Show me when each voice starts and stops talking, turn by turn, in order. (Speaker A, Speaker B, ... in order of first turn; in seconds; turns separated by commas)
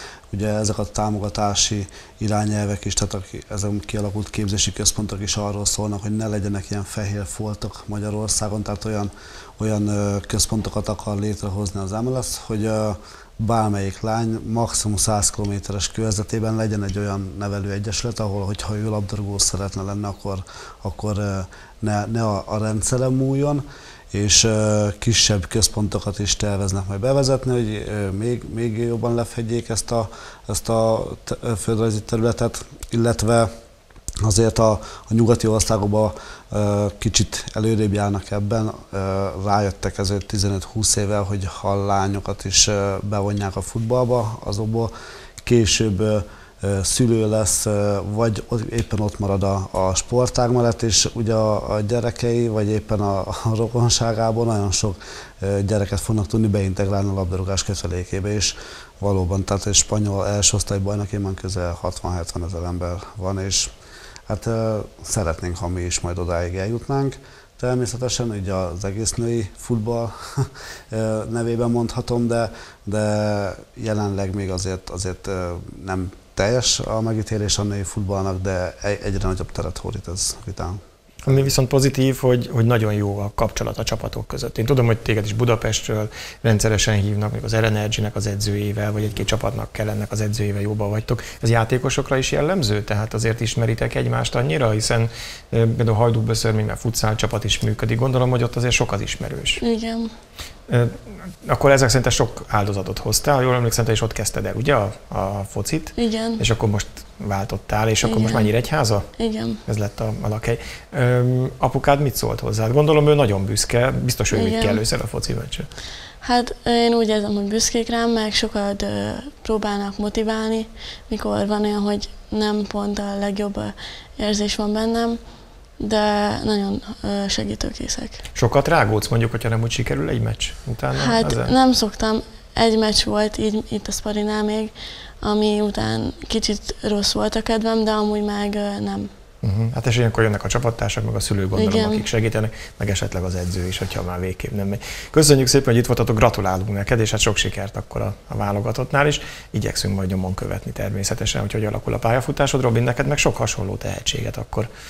Speaker A: 0.3-33.5, Speaker A: 34.2-44.9, Speaker A: 45.4-63.7, Speaker A: 64.3-81.5, Speaker B: 81.2-99.6, Speaker C: 99.6-100.1, Speaker B: 100.7-109.1, Speaker C: 106.0-106.4, Speaker C: 108.0-108.5, Speaker C: 109.2-109.6, Speaker B: 109.6-115.7, Speaker C: 114.3-114.8, Speaker C: 116.2-125.2, Speaker C: 125.8-128.2, Speaker B: 128.3-131.5, Speaker C: 130.9-139.1, Speaker B: 139.4-154.7, Speaker C: 141.5-142.1